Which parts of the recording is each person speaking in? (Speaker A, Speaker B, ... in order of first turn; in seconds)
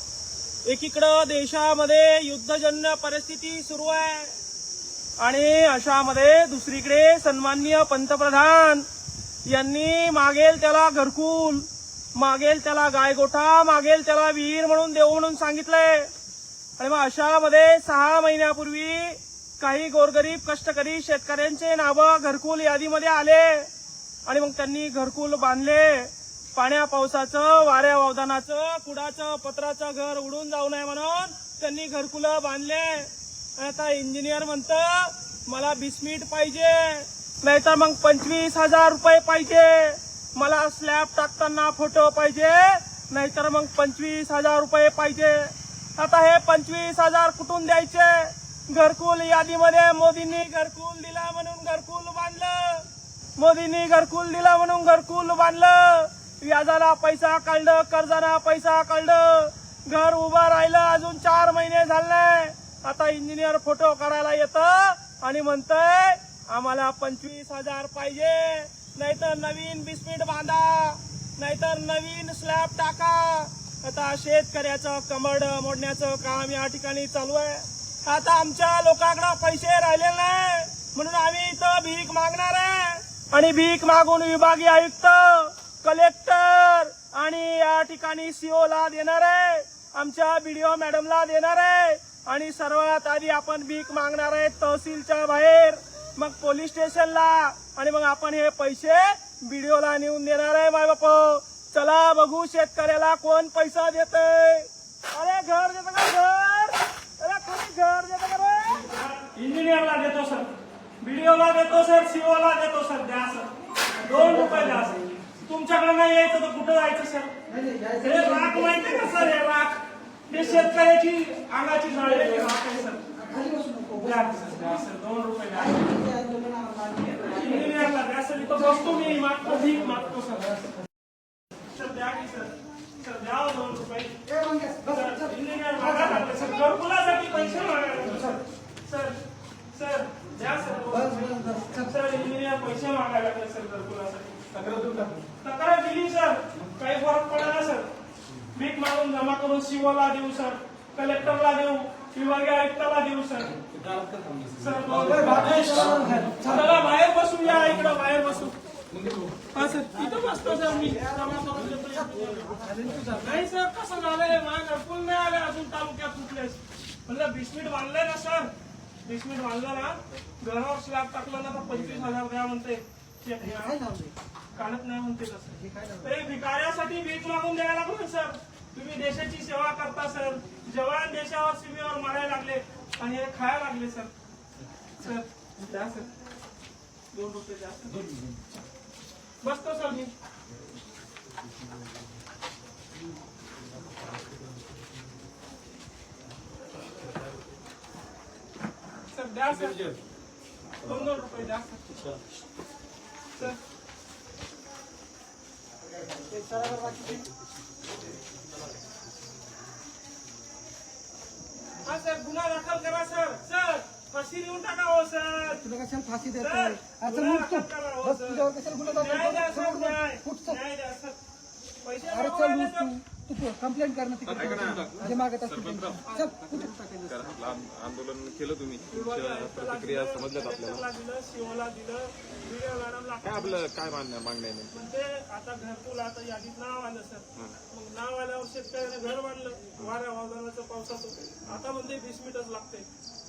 Speaker A: 0.7-4.3, 5.2-8.9, 9.5-16.1, 16.8-23.7, 24.3-110.5, 111.0-117.3, 118.0-123.0, 124.0-125.8, 127.2-130.8, 131.7-134.2, 134.8-139.2, 139.7-144.4, 145.4-147.9, 148.4-153.6, 154.6-158.6, 159.5-168.5, 169.0-173.8, 174.5-184.1, 185.0-186.1, 187.1-188.1, 189.4-190.1, 199.1-199.8, 200.8-202.0, 211.8-215.7, 216.3-221.2, 221.8-223.0, 226.1-226.3, 228.9-233.7, 234.7-242.9
Speaker B: 114.1-115.0, 117.5-119.3, 122.0-124.8, 125.5-127.9, 134.3-136.6, 140.9-141.8, 154.9-156.7, 160.6-163.1, 173.4-174.1, 175.6-176.1, 206.3-207.3, 215.6-220.6, 222.0-227.3
Speaker C: 144.5-145.2, 153.6-156.4, 158.9-159.5, 188.0-188.4, 199.5-200.0, 200.8-201.3, 201.9-202.2, 206.5-206.9, 224.3-230.8, 233.2-234.7